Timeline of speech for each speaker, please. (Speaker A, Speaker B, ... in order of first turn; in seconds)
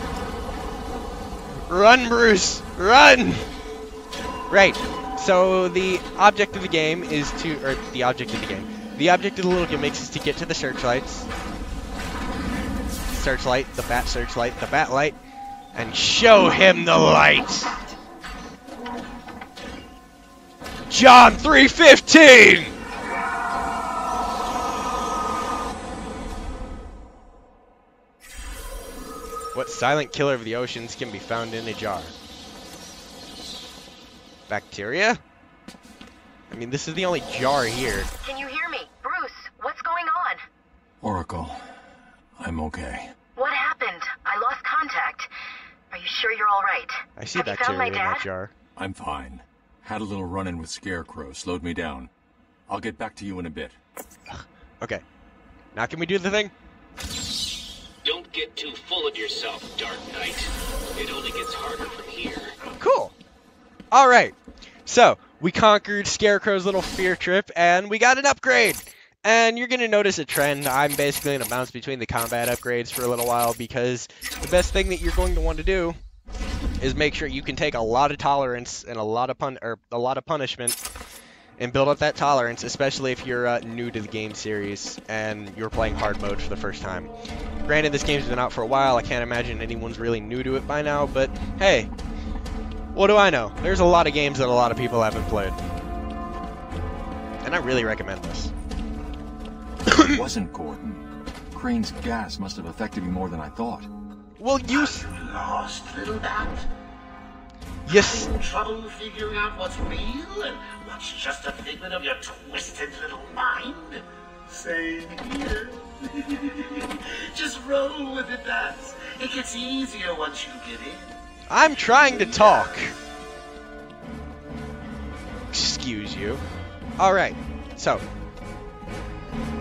Speaker A: 1.7-3.5, 4.5-11.3, 13.1-15.2, 15.7-17.8, 20.9-22.7, 29.5-32.1, 34.5-35.2, 36.5-38.1, 47.1-48.5, 54.3-55.0, 55.7-56.5, 62.8-63.1, 63.9-64.3, 64.8-76.0, 76.8-80.8, 81.6-87.1, 87.7-91.9, 92.9-95.6, 97.4-98.5, 99.9-100.2, 104.4-105.0, 107.9-108.3, 121.5-122.9, 125.5-126.4, 127.0-128.0
Speaker B: 38.2-40.4, 43.4-45.3, 45.9-48.2
Speaker C: 41.0-41.7, 42.4-43.1, 48.8-52.1, 52.7-53.8, 100.0-103.9
Speaker D: 58.0-62.5
Speaker E: 104.7-106.7, 107.9-121.1, 122.2-122.6